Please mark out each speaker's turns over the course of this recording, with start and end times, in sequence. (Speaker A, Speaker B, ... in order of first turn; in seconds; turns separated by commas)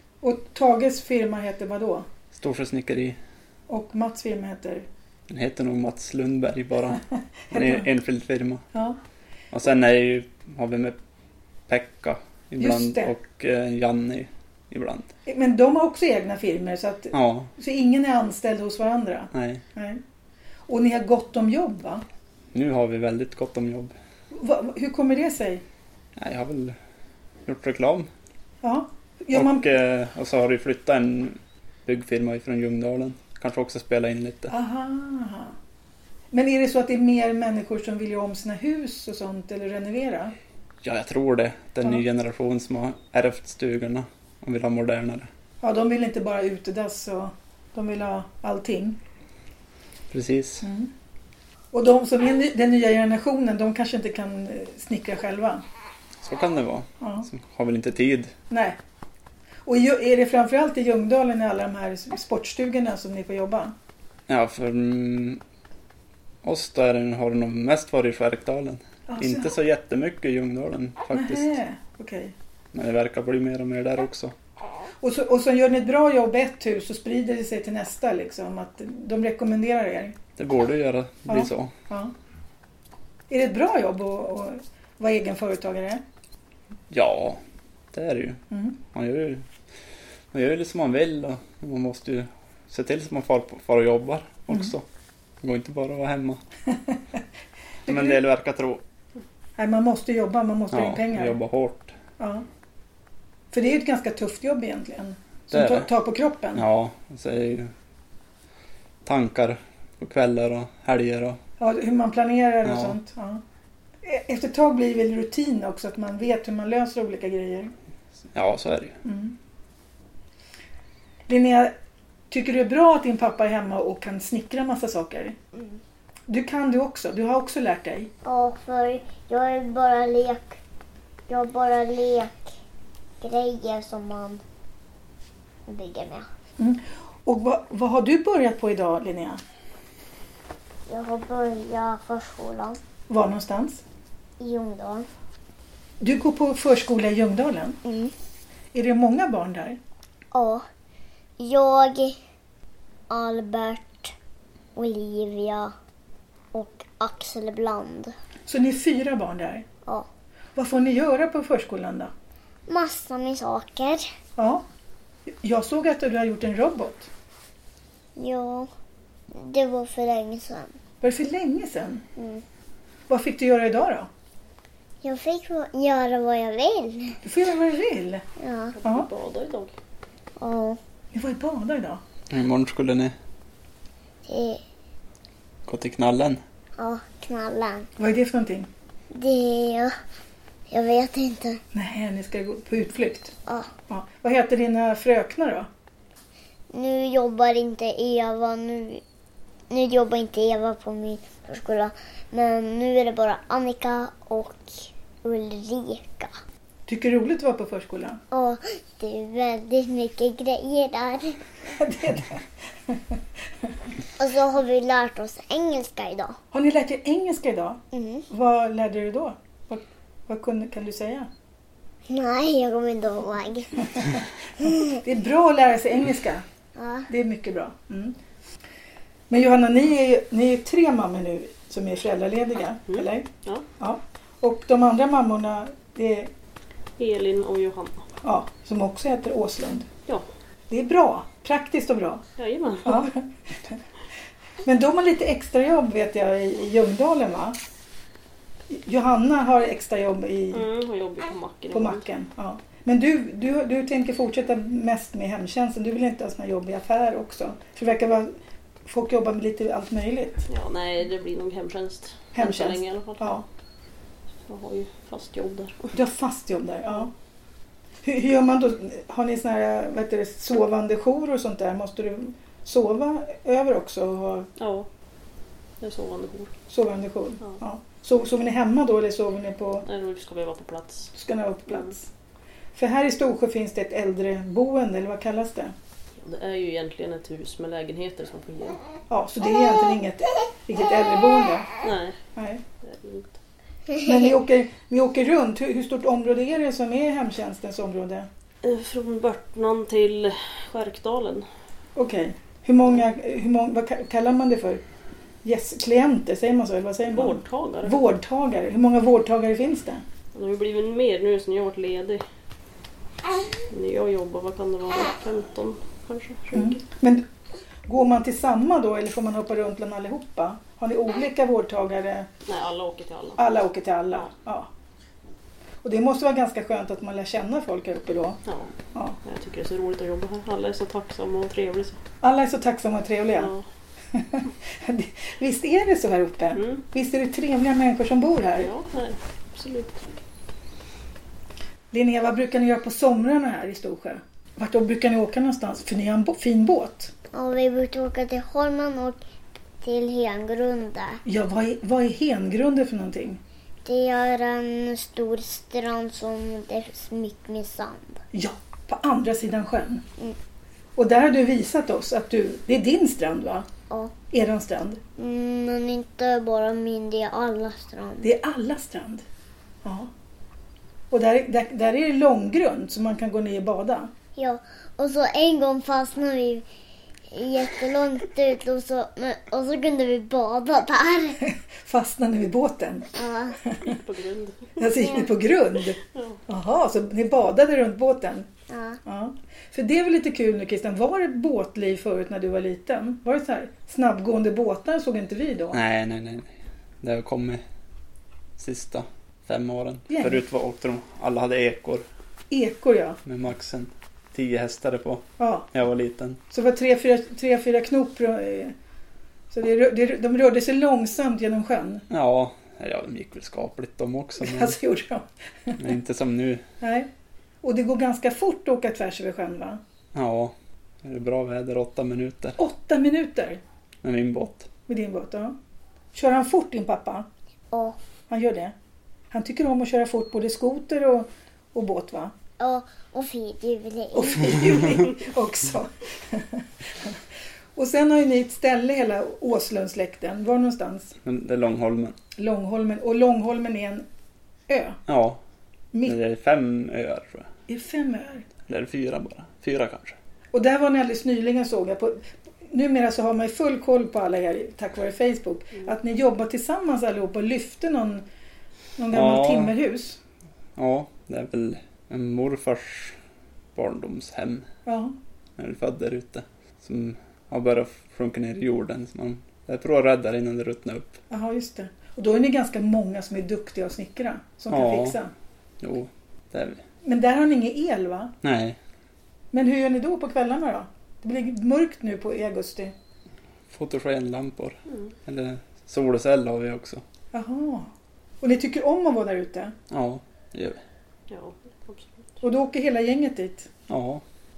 Speaker A: 0.2-2.1, Speaker B: 2.3-3.2, Speaker A: 3.7-4.8, Speaker B: 5.3-7.0, Speaker A: 7.5-7.8, Speaker B: 7.5-8.6, Speaker B: 9.5-11.0, Speaker B: 11.7-15.1, Speaker A: 12.6-13.1, Speaker A: 15.2-20.0, Speaker B: 17.1-17.5, Speaker B: 19.3-19.6, Speaker A: 20.7-22.0, Speaker B: 22.5-23.9, Speaker A: 24.3-25.6, Speaker B: 26.1-26.8, Speaker B: 27.4-28.1, Speaker A: 28.6-29.7, Speaker B: 29.3-34.5, Speaker A: 34.5-35.5, Speaker A: 36.3-40.3, Speaker B: 40.8-45.3, Speaker A: 45.6-49.0, Speaker B: 50.1-50.6, Speaker A: 50.6-50.9, Speaker A: 51.7-55.6, Speaker B: 56.2-58.3, Speaker A: 57.0-57.3, Speaker A: 58.5-58.8, Speaker A: 59.6-63.7, Speaker B: 64.3-65.4, Speaker B: 66.4-71.5, Speaker A: 69.1-69.5, Speaker A: 71.1-72.3, Speaker B: 72.7-74.3, Speaker A: 75.0-80.2, Speaker B: 80.4-81.7, Speaker A: 81.3-82.1, Speaker A: 83.3-86.0, Speaker B: 86.9-87.4, Speaker B: 87.9-89.4, Speaker A: 88.5-88.8, Speaker B: 90.3-94.8, Speaker B: 95.4-96.4, Speaker A: 97.8-98.2, Speaker B: 97.9-98.8, Speaker A: 99.6-101.3, Speaker B: 100.7-101.9, Speaker A: 102.2-102.4, Speaker A: 103.5-106.6, Speaker B: 105.5-105.9, Speaker B: 106.5-107.7, Speaker B: 109.0-111.4, Speaker A: 111.6-113.4, Speaker B: 112.6-113.0, Speaker A: 114.0-117.7, Speaker B: 118.3-119.0, Speaker A: 119.0-119.3, Speaker A: 121.3-121.7, Speaker A: 122.3-125.3, Speaker A: 126.3-128.1, Speaker C: 128.2-130.6, Speaker C: 131.3-132.5, Speaker C: 133.2-134.4, Speaker C: 135.7-136.3, Speaker A: 136.6-139.4, Speaker C: 140.9-142.8, Speaker A: 143.1-143.8, Speaker C: 144.4-145.1, Speaker A: 146.0-147.8, Speaker C: 147.8-148.1, Speaker A: 148.7-149.8, Speaker C: 150.3-150.7, Speaker C: 151.4-152.2, Speaker C: 153.1-154.1, Speaker C: 154.8-155.7, Speaker C: 156.5-158.1, Speaker A: 158.5-159.6, Speaker A: 160.6-162.1, Speaker C: 162.7-164.1, Speaker A: 164.4-164.6, Speaker A: 165.4-167.1, Speaker C: 168.2-168.7, Speaker C: 169.3-170.7, Speaker A: 171.0-172.0, Speaker C: 172.2-172.4, Speaker A: 173.1-174.1, Speaker C: 175.0-177.2, Speaker A: 177.2-178.2, Speaker C: 178.4-178.7, Speaker D: 178.7-179.7, Speaker C: 180.4-180.8, Speaker A: 181.1-182.0, Speaker B: 182.3-183.1, Speaker C: 184.3-184.6, Speaker B: 185.7-186.4, Speaker C: 186.8-187.9, Speaker A: 188.0-188.7, Speaker C: 189.1-189.9, Speaker C: 190.7-191.6, Speaker A: 191.7-193.3, Speaker A: 193.9-195.7, Speaker C: 196.7-199.0, Speaker C: 199.7-206.3, Speaker A: 206.9-208.2, Speaker C: 208.3-211.4, Speaker A: 211.7-213.1, Speaker C: 214.2-216.4, Speaker A: 216.5-221.3, Speaker C: 217.9-218.2, Speaker C: 222.1-224.8, Speaker A: 224.9-226.4, Speaker C: 226.8-227.1, Speaker A: 227.1-228.2, Speaker A: 229.3-233.3, Speaker D: 232.9-233.6, Speaker A: 233.8-236.3, Speaker D: 237.0-238.0, Speaker A: 238.2-239.9, Speaker A: 240.7-242.2, Speaker D: 242.4-243.1, Speaker A: 242.8-243.2, Speaker A: 244.6-247.6, Speaker A: 248.7-250.7, Speaker D: 250.5-252.0, Speaker A: 251.7-258.3, Speaker A: 258.9-260.5, Speaker D: 260.5-263.4, Speaker A: 262.3-263.4, Speaker D: 264.5-265.9, Speaker A: 265.9-267.1, Speaker A: 268.0-274.5, Speaker D: 274.6-274.9, Speaker D: 275.8-276.5, Speaker A: 276.7-279.9, Speaker D: 279.9-281.1, Speaker A: 281.1-282.1, Speaker A: 282.7-285.7, Speaker D: 286.2-288.8, Speaker A: 289.1-291.7, Speaker D: 291.8-292.2, Speaker A: 292.4-292.6, Speaker D: 292.8-293.3, Speaker A: 294.0-298.3, Speaker D: 298.6-301.4, Speaker A: 301.9-304.8, Speaker A: 305.4-310.0, Speaker D: 307.1-308.0, Speaker D: 310.3-312.2, Speaker D: 313.7-316.8, Speaker A: 316.5-317.2, Speaker A: 317.9-322.3, Speaker D: 322.5-323.4, Speaker A: 323.4-324.7, Speaker A: 325.8-328.4, Speaker D: 328.4-328.7, Speaker D: 329.2-332.0, Speaker A: 332.2-333.5, Speaker D: 333.4-333.6, Speaker A: 334.1-338.7, Speaker D: 336.6-336.8, Speaker D: 338.6-340.1, Speaker A: 341.9-347.1, Speaker C: 347.3-349.2, Speaker C: 349.8-351.2, Speaker A: 351.2-353.4, Speaker C: 353.8-358.1, Speaker A: 358.3-360.0, Speaker A: 360.9-363.7, Speaker A: 364.3-365.0, Speaker C: 365.2-368.3, Speaker A: 368.2-369.2, Speaker A: 369.8-370.1, Speaker A: 371.1-374.1, Speaker C: 374.4-376.6, Speaker C: 377.3-381.4, Speaker A: 381.4-383.1, Speaker C: 383.1-383.6, Speaker A: 383.6-383.9, Speaker D: 383.8-384.8, Speaker A: 384.8-388.5, Speaker D: 386.1-386.4, Speaker C: 388.7-389.0, Speaker A: 389.0-395.8, Speaker B: 395.7-397.6, Speaker B: 398.6-402.0, Speaker A: 400.1-400.4, Speaker A: 402.5-403.2, Speaker B: 403.2-406.4, Speaker A: 405.4-405.7, Speaker A: 406.5-408.7, Speaker A: 409.5-412.0, Speaker B: 412.1-414.7, Speaker A: 414.4-415.8, Speaker B: 415.8-416.6, Speaker A: 416.8-417.1, Speaker A: 417.6-419.8, Speaker B: 420.1-422.6, Speaker A: 422.6-423.6, Speaker B: 424.0-424.7, Speaker A: 424.9-425.5, Speaker A: 426.1-427.2, Speaker C: 427.7-428.0, Speaker A: 428.3-428.7, Speaker A: 429.3-432.3, Speaker C: 432.6-434.8, Speaker A: 434.1-437.1, Speaker A: 437.8-441.1, Speaker B: 441.2-442.1, Speaker A: 442.4-444.1, Speaker A: 444.7-445.0, Speaker B: 445.1-445.4, Speaker B: 446.0-447.5, Speaker A: 447.7-448.4, Speaker B: 448.7-450.2, Speaker A: 450.5-458.2, Speaker A: 459.0-460.2, Speaker B: 459.1-459.7, Speaker B: 460.8-463.2, Speaker B: 463.7-464.7, Speaker A: 464.9-465.1, Speaker B: 465.6-471.2, Speaker A: 471.3-475.3, Speaker B: 474.7-475.2, Speaker B: 475.8-476.8, Speaker A: 477.0-478.3, Speaker B: 478.4-478.8, Speaker A: 479.5-482.9, Speaker B: 483.7-487.0, Speaker A: 487.3-487.9, Speaker A: 488.4-489.7, Speaker B: 489.9-490.8, Speaker D: 491.3-492.2, Speaker A: 492.4-493.7, Speaker B: 493.9-494.2